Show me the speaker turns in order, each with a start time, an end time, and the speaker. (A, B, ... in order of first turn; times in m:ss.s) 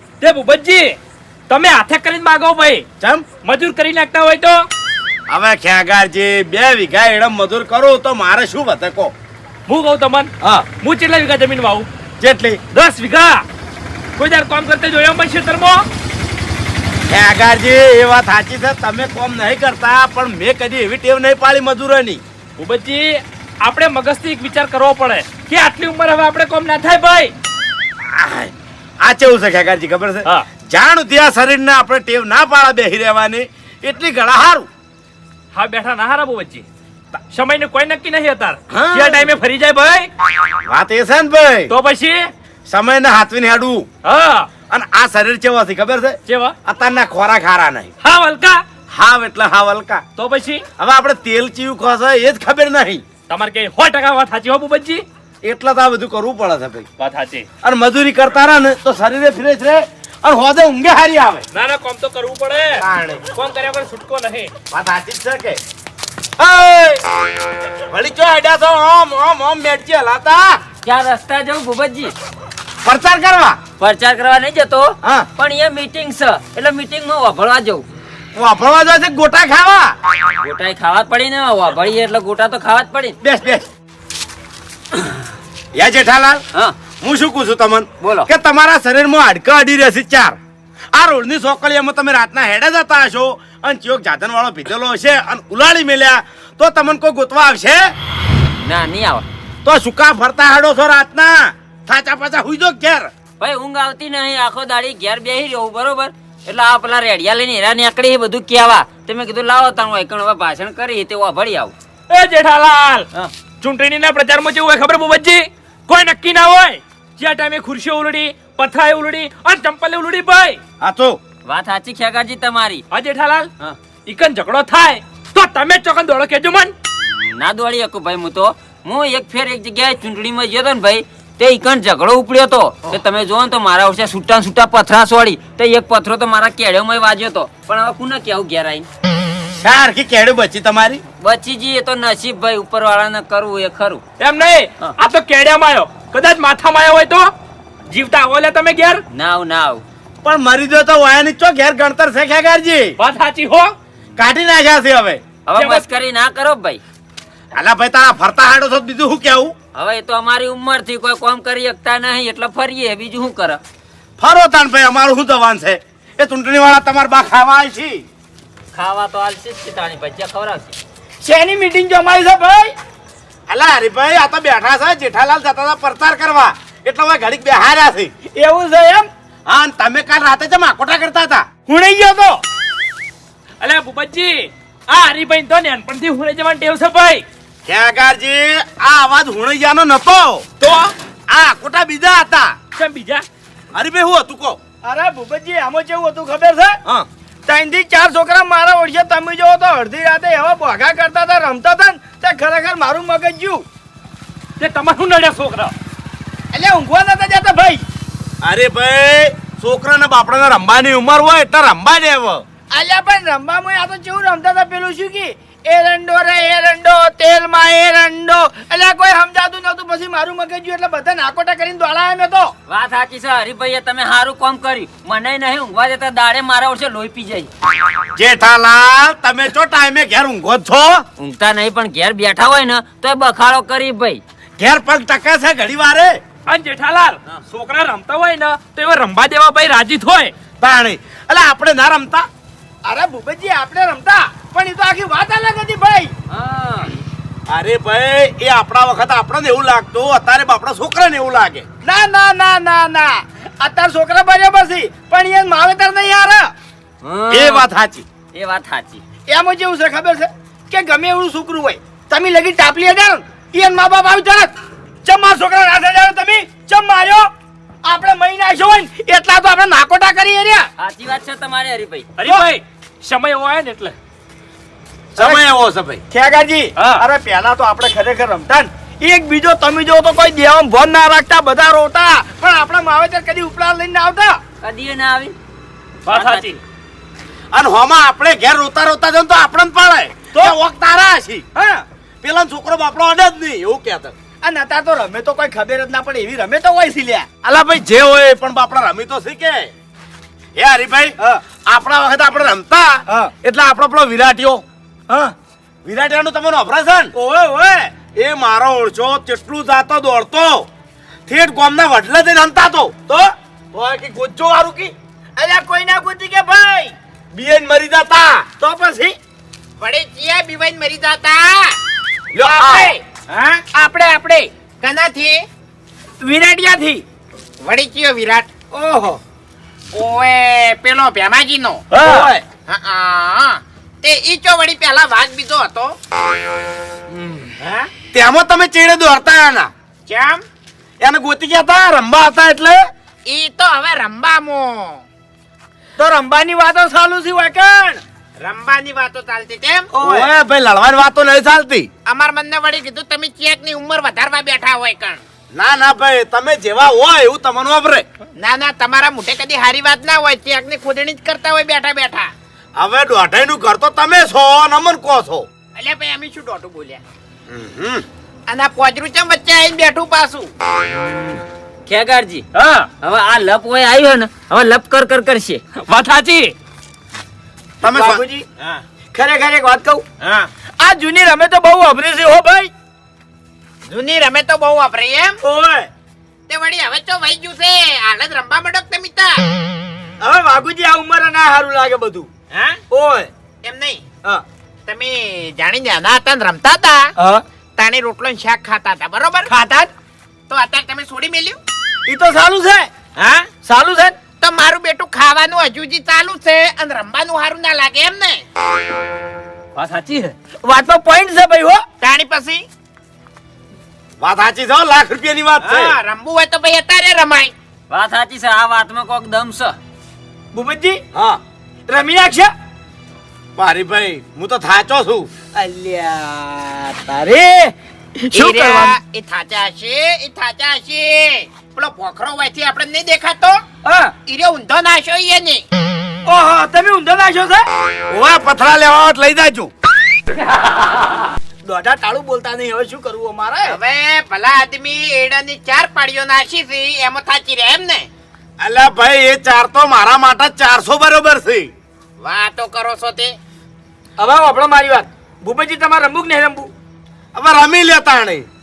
0:00.2-0:01.0 A
0:01.5-0:02.8 A
0:03.0-0:03.3 B
0:03.4-0:04.6 A
0:05.3-0:09.1 B
0:09.7-0:11.9 A
0:12.2-0:12.6 B
0:12.7-0:13.4 A
0:14.2-0:15.8 A
0:17.1-0:22.2 B
0:22.6-0:27.3 A
0:28.0-0:34.7 B
0:35.5-0:36.6 A
0:37.3-0:40.1 A
0:38.7-0:39.3 B
0:40.6-0:41.7 B
0:41.7-0:42.3 A
0:42.7-0:43.9 B
0:44.0-0:44.5 A
0:44.7-0:47.9 B
0:46.3-0:46.5 A
0:48.0-0:48.6 A
0:48.9-0:50.0 B
0:50.2-0:50.6 A
0:50.8-0:53.0 B
0:53.3-0:55.0 A
0:55.4-0:56.9 B
0:57.0-0:57.5 A
0:57.6-1:01.4 B
1:01.5-1:04.5 A
1:02.8-1:03.3 B
1:04.7-1:05.6 B
1:06.4-1:07.0 B
1:07.9-1:10.6 B
1:10.8-1:12.1 C
1:12.8-1:13.6 B
1:13.8-1:17.8 C
1:15.0-1:15.3 B
1:18.4-1:19.9 B
1:20.4-1:23.2 C
1:23.2-1:23.6 B
1:25.7-1:26.4 B
1:27.0-1:30.4 B
1:28.0-1:28.3 C
1:30.9-1:37.8 B
1:38.6-1:39.2 C
1:39.6-1:43.1 B
1:43.4-1:51.7 C
1:52.1-1:53.0 A
1:53.6-2:00.6 A
2:00.8-2:01.2 B
2:01.4-2:02.8 C
2:02.9-2:03.5 A
2:04.0-2:06.7 A
2:07.1-2:18.9 C
2:19.6-2:21.0 B
2:21.2-2:24.0 C
2:24.2-2:27.3 A
2:27.9-2:29.0 A
2:29.1-2:29.8 C
2:30.2-2:32.9 B
2:33.0-2:33.7 A
2:34.2-2:35.2 B
2:35.5-2:36.8 C
2:35.5-2:35.8 A
2:37.5-2:39.5 B
2:39.7-2:43.6 C
2:44.2-2:48.0 B
2:48.7-2:50.8 C
2:51.2-2:52.7 D
2:53.5-2:58.1 B
2:58.3-2:59.1 D
2:59.5-3:01.5 B
3:01.7-3:02.4 D
3:03.6-3:07.2 A
3:07.6-3:10.8 B
3:11.3-3:12.6 B
3:12.7-3:13.2 A
3:13.7-3:14.6 B
3:14.8-3:16.8 D
3:17.5-3:23.6 D
3:24.6-3:25.7 A
3:26.5-3:27.8 D
3:28.4-3:32.4 B
3:32.7-3:42.5 D
3:42.7-3:47.5 C
3:48.1-3:51.0 B
3:51.2-3:54.2 C
3:54.6-3:56.2 B
3:56.5-4:00.3 A
4:00.6-4:02.3 B
4:02.8-4:06.1 D
4:06.3-4:06.9 C
4:07.5-4:11.7 B
4:11.8-4:16.5 D
4:17.0-4:17.6 C
4:17.3-4:18.0 B
4:18.3-4:19.0 C
4:19.3-4:24.5 D
4:25.0-4:27.3 D
4:27.8-4:30.7 D
4:30.8-4:32.1 C
4:32.2-4:34.0 A
4:35.1-4:36.0 B
4:36.1-4:44.4 D
4:36.8-4:37.0 A
4:44.6-4:45.4 C
4:46.0-4:46.6 A
4:46.1-4:46.5 C
4:47.5-4:51.4 B
4:51.5-4:51.8 D
4:52.2-4:54.1 B
4:54.4-4:57.3 D
4:57.4-4:59.7 B
5:00.6-5:04.6 B
5:05.1-5:05.3 D
5:05.8-5:07.1 B
5:07.1-5:07.9 D
5:08.1-5:10.7 B
5:11.3-5:13.0 B
5:13.7-5:14.9 B
5:15.4-5:16.9 D
5:17.3-5:18.5 B
5:18.6-5:19.2 D
5:19.8-5:21.8 E
5:22.3-5:23.6 B
5:22.4-5:23.0 E
5:23.7-5:25.5 E
5:26.2-5:27.0 D
5:27.6-5:28.5 E
5:28.7-5:29.2 D
5:29.9-5:31.8 E
5:31.9-5:32.3 D
5:32.0-5:32.4 B
5:32.7-5:36.0 E
5:37.6-5:37.9 E
5:38.1-5:39.7 B
5:40.1-5:40.4 E
5:41.0-5:42.8 B
5:43.2-5:45.0 E
5:46.0-5:48.0 D
5:48.4-5:49.9 E
5:49.9-5:50.3 D
5:50.0-5:51.9 B
5:52.0-5:55.2 E
5:55.5-5:58.0 B
5:58.4-6:02.3 E
6:02.8-6:05.5 B
6:05.7-6:07.0 E
6:07.5-6:08.0 B
6:08.5-6:10.5 E
6:11.9-6:12.5 C
6:12.5-6:12.9 A
6:13.0-6:15.6 C
6:15.8-6:16.5 A
6:17.8-6:18.2 B
6:17.8-6:18.4 D
6:19.1-6:20.0 D
6:20.8-6:22.7 D
6:23.9-6:25.4 E
6:25.4-6:25.9 D
6:26.5-6:29.4 E
6:30.2-6:32.3 D
6:32.5-6:32.8 E
6:32.9-6:33.3 D
6:33.6-6:34.0 E
6:34.8-6:37.1 E
6:37.2-6:37.4 D
6:37.8-6:39.5 E
6:39.5-6:39.9 D
6:40.5-6:41.6 E
6:42.1-6:42.9 D
6:43.2-6:43.5 E
6:43.6-6:44.2 D
6:44.4-6:48.4 E
6:49.8-6:50.3 A
6:50.6-6:51.8 D
6:52.0-6:52.6 E
6:54.2-6:56.0 B
6:55.6-6:57.5 E
6:57.9-6:59.8 C
7:00.5-7:01.0 D
7:01.1-7:01.4 B
7:01.9-7:02.5 D
7:03.6-7:05.3 B
7:05.5-7:08.9 D
7:08.3-7:13.6 E
7:13.8-7:14.1 D
7:14.3-7:15.6 E
7:16.3-7:17.6 D
7:18.1-7:19.7 B
7:21.6-7:23.8 D
7:23.7-7:28.1 E
7:28.6-7:31.7 B
7:32.2-7:33.4 E
7:34.2-7:36.7 D
7:37.3-7:38.4 B